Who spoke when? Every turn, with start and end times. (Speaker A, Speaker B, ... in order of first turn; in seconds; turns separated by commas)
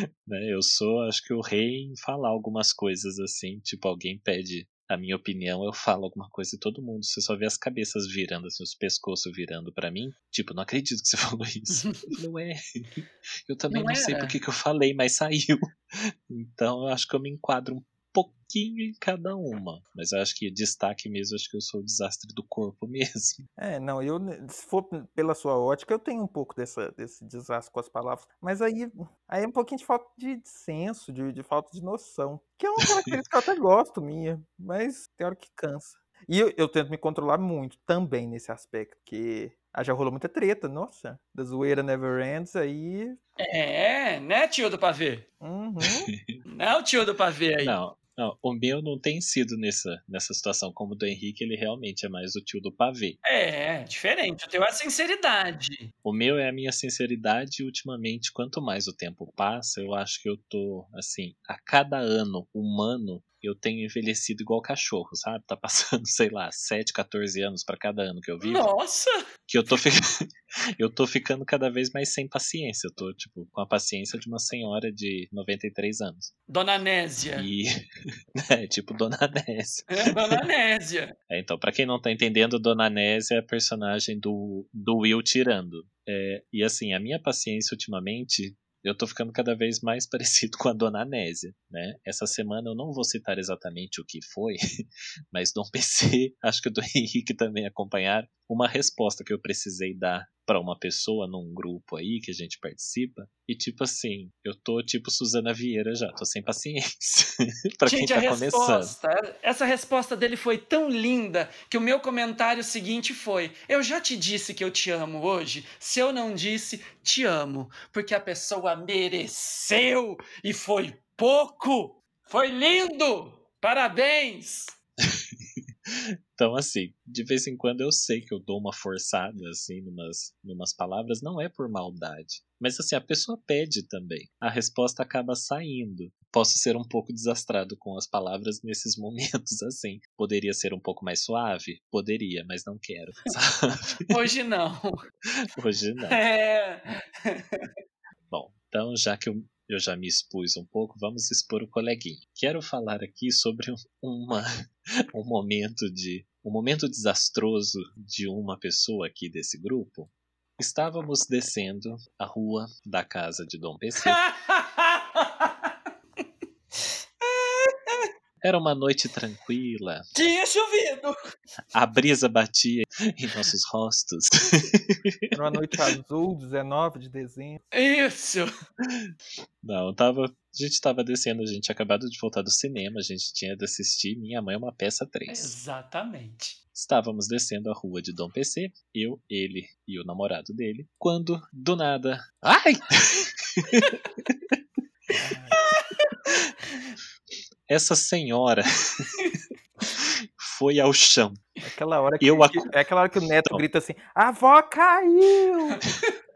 Speaker A: 0.2-23.4, Speaker B: 11.7-12.1, Speaker B: 13.7-14.4, Speaker C: 23.6-43.2, Speaker B: 43.4-45.2, Speaker C: 45.4-46.1, Speaker A: 45.9-46.4, Speaker B: 46.5-47.8, Speaker A: 47.6-53.2, Speaker B: 53.2-55.9, Speaker A: 56.0-68.7, Speaker B: 68.4-69.2, Speaker A: 69.5-70.3, Speaker A: 70.8-76.3, Speaker B: 76.5-77.5, Speaker A: 77.3-77.7, Speaker A: 78.4-80.4, Speaker B: 79.9-81.1, Speaker A: 81.3-94.6, Speaker A: 95.3-108.9, Speaker B: 107.8-124.7, Speaker A: 126.3-144.1, Speaker B: 144.1-145.0, Speaker A: 145.5-146.2, Speaker B: 146.1-147.7, Speaker A: 148.3-164.2, Speaker B: 164.0-165.7, Speaker B: 167.2-168.1, Speaker A: 168.4-170.0, Speaker B: 170.1-171.2, Speaker A: 171.7-175.3, Speaker C: 175.3-177.6, Speaker B: 177.7-178.5, Speaker A: 179.6-185.5, Speaker B: 185.3-186.6, Speaker A: 186.7-194.5, Speaker C: 195.1-195.6, Speaker B: 195.6-196.3, Speaker A: 197.7-199.3, Speaker A: 200.4-201.4, Speaker C: 201.6-205.8, Speaker A: 202.2-202.7